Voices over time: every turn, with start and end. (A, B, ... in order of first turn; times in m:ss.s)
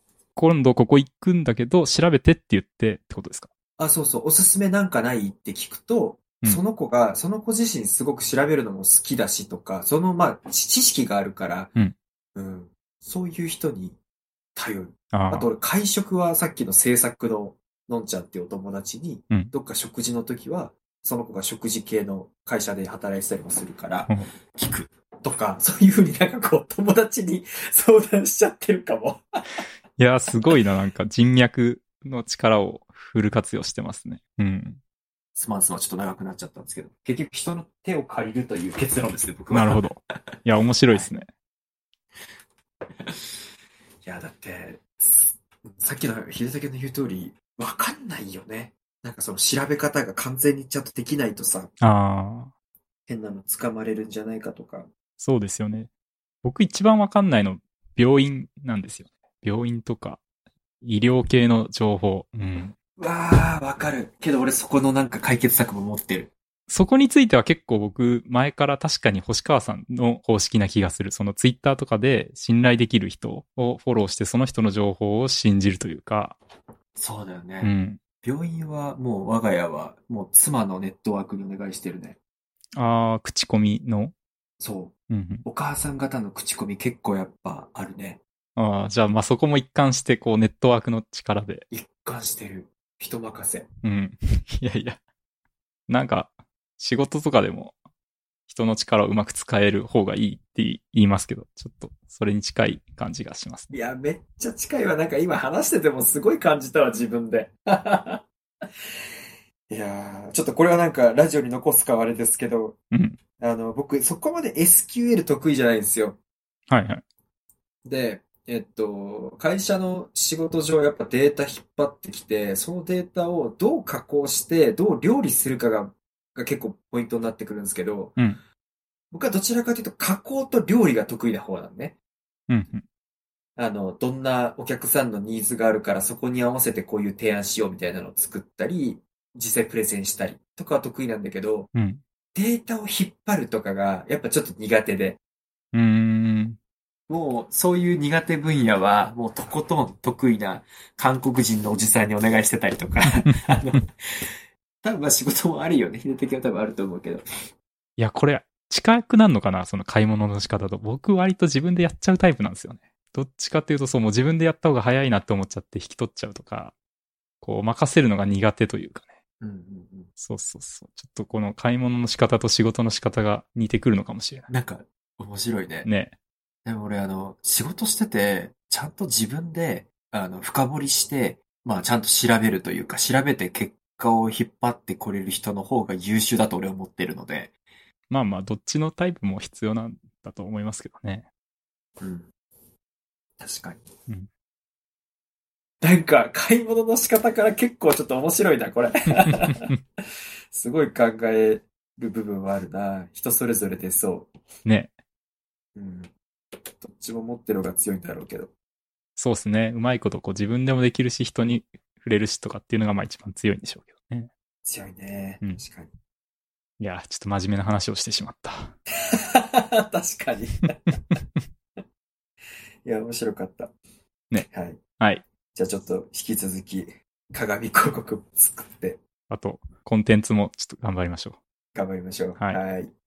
0:00.4-0:03.5 A
0:03.8-0:11.7 B
0:12.4-0:14.0 B
0:14.6-0:29.2 B
0:15.1-0:15.5 A
0:30.0-0:34.8 A
0:35.4-0:39.8 B
0:39.5-0:41.3 A
0:44.0-0:51.7 B
0:51.8-0:52.5 A
0:53.1-0:54.9 B
0:55.2-0:55.9 A
0:56.4-1:00.2 A
1:00.8-1:02.8 A
1:03.0-1:06.3 B
1:06.7-1:16.4 A
1:17.0-1:22.2 B
1:17.6-1:18.0 A
1:22.8-1:24.1 A
1:24.6-1:28.2 B
1:25.1-1:25.4 A
1:28.6-1:31.7 A
1:31.7-1:33.7 B
1:33.8-1:35.0 A
1:35.9-1:37.8 A
1:38.5-1:43.7 A
1:43.7-1:48.2 B
1:49.7-1:52.8 B
1:52.9-1:53.2 A
1:53.4-1:56.2 B
1:56.7-1:57.0 A
1:57.8-2:08.2 B
2:09.1-2:12.0 B
2:12.5-2:12.8 A
2:13.6-2:21.7 B
2:21.8-2:22.0 A
2:22.4-2:25.2 B
2:25.7-2:26.6 A
2:27.1-2:33.9 B
2:33.3-2:33.6 A
2:34.8-2:37.2 B
2:38.0-2:46.8 A
2:47.4-2:49.1 A
2:49.4-2:50.1 B
2:50.2-2:54.5 A
2:54.5-2:55.9 B
2:55.8-2:56.1 A
2:56.6-3:07.5 B
3:08.1-3:11.3 A
3:12.0-3:12.3 B
3:13.4-3:13.8 B
3:15.8-3:19.7 B
3:19.3-3:19.8 A
3:20.5-3:24.3 B
3:24.7-3:24.9 A
3:25.8-3:26.1 B
3:26.8-3:28.5 B
3:29.2-3:34.3 A
3:34.6-3:35.9 B
3:36.8-3:38.7 A
3:39.1-3:41.2 B
3:42.8-3:43.7 B
3:44.5-3:44.8 B
3:45.0-3:45.2 A
3:45.5-3:49.0 B
3:49.3-3:51.4 A
3:51.8-3:52.9 B
3:52.4-3:52.6 A